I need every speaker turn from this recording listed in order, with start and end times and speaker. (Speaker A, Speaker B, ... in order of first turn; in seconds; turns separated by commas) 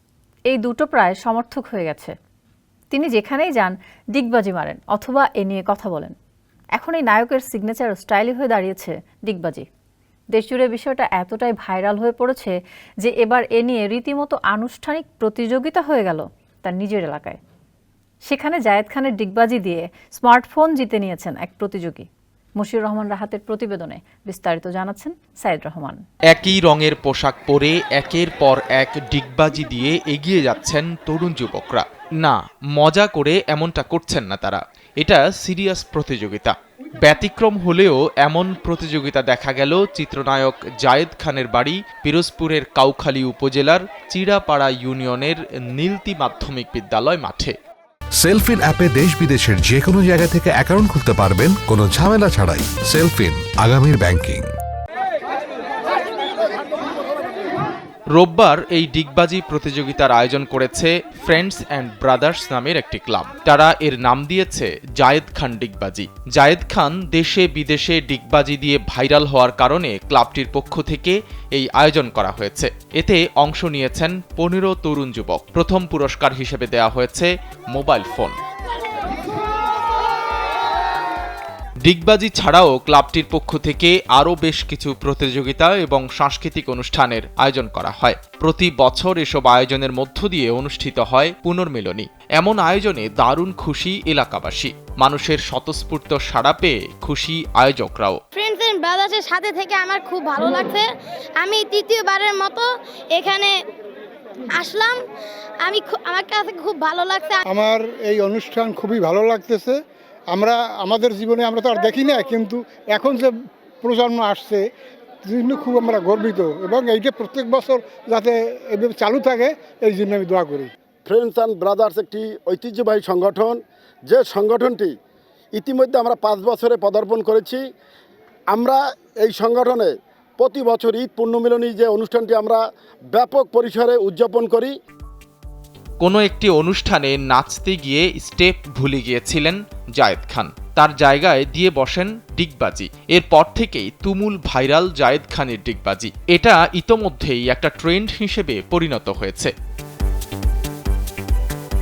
Speaker A: 0.5-2.1, Speaker A: 2.9-6.1, Speaker A: 6.7-9.7, Speaker A: 10.3-17.4, Speaker A: 18.2-22.1, Speaker A: 22.6-26.0, Speaker B: 26.3-47.5, Speaker C: 48.2-54.5, Speaker B: 58.1-78.3, Speaker B: 81.8-98.2, Speaker D: 98.3-103.6, Speaker D: 104.5-105.0, Speaker D: 105.6-107.4, Speaker E: 107.5-109.8, Speaker E: 110.3-114.7, Speaker E: 115.2-120.7, Speaker F: 121.0-124.9, Speaker F: 125.5-127.6, Speaker F: 128.5-132.6, Speaker F: 133.1-134.7, Speaker B: 136.0-149.5